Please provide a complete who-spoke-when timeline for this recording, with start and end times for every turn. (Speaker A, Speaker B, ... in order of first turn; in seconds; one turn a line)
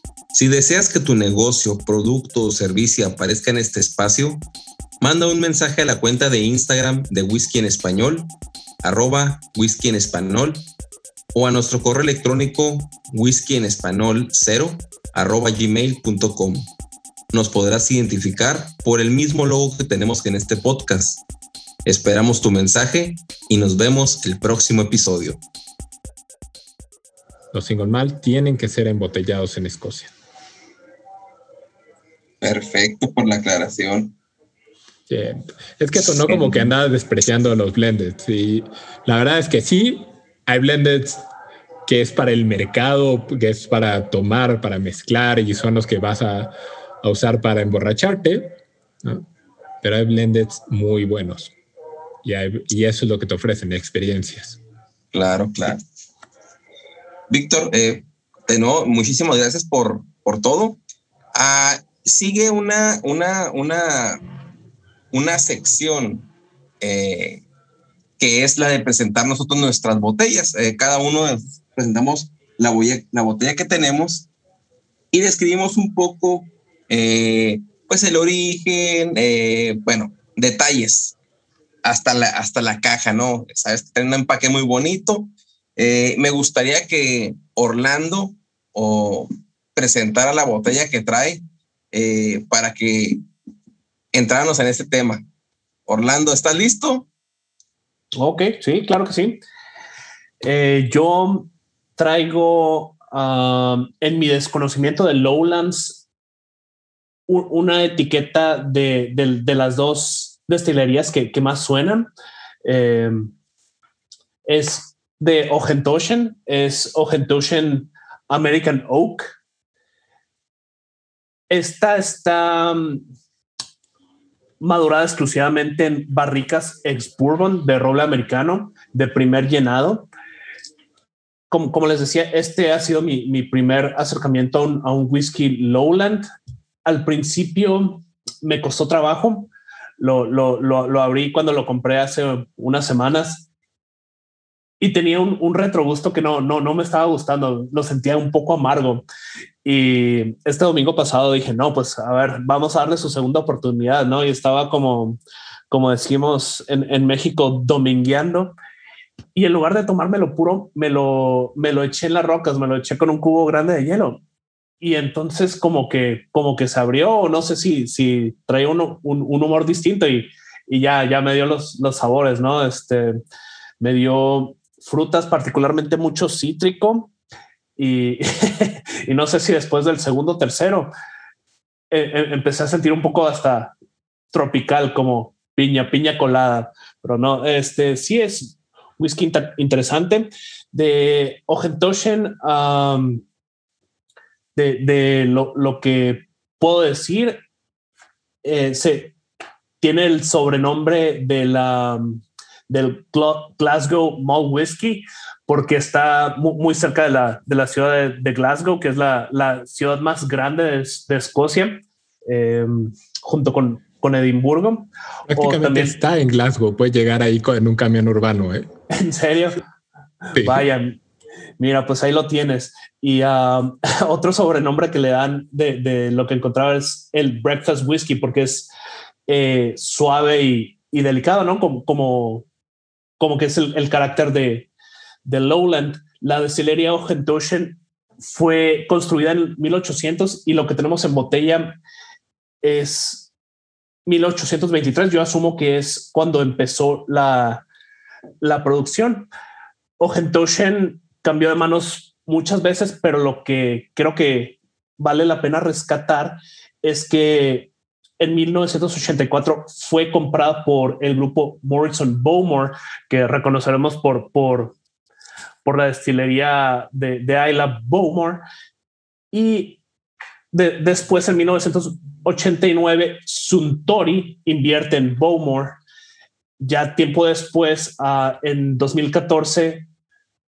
Speaker A: 0.3-4.4
Speaker A: 5.0-8.3
Speaker A: 8.8-10.7
Speaker A: 11.3-16.7
Speaker A: 17.3-21.2
Speaker A: 21.9-25.4
Speaker B: 27.5-30.1
Speaker A: 32.4-34.1
Speaker B: 35.1-41.2
Speaker A: 36.3-36.7
Speaker B: 41.9-49.2
Speaker B: 49.8-51.5
Speaker B: 52.2-54.6
Speaker A: 55.1-55.8
Speaker A: 57.3-60.8
Speaker A: 61.3-64.2
Speaker A: 65.1-66.3
Speaker A: 66.8-67.4
Speaker A: 68.2-74.3
Speaker A: 75.1-81.2
Speaker A: 81.8-93.2
Speaker A: 94.1-95.2
Speaker A: 95.9-97.1
Speaker C: 98.1-99.4
Speaker C: 100.4-106.0
Speaker C: 107.3-112.1
Speaker C: 112.6-113.3
Speaker C: 114.5-119.3
Speaker C: 121.5-123.0
Speaker C: 124.6-130.1
Speaker C: 131.5-136.2
Speaker C: 136.8-143.4
Speaker C: 144.8-149.0
Speaker C: 149.6-155.2
Speaker C: 155.7-158.5
Speaker C: 159.3-164.2
Speaker C: 164.8-173.2
Speaker C: 173.8-177.1
Speaker C: 177.8-180.9
Speaker C: 181.9-183.7
Speaker C: 184.3-193.2
Speaker C: 194.5-197.4
Speaker C: 198.4-199.1
Speaker C: 199.8-216.0
Speaker B: 215.3-218.7
Speaker C: 218.9-219.6
Speaker C: 220.3-221.0
Speaker B: 220.3-220.6
Speaker C: 221.6-228.7
Speaker C: 229.3-232.4
Speaker C: 233.2-234.7
Speaker C: 235.2-241.8
Speaker C: 242.6-243.3
Speaker C: 244.1-247.6
Speaker C: 248.4-249.3
Speaker C: 250.0-264.7
Speaker C: 265.6-268.4
Speaker C: 269.3-269.8
Speaker C: 270.5-275.8
Speaker C: 276.6-279.9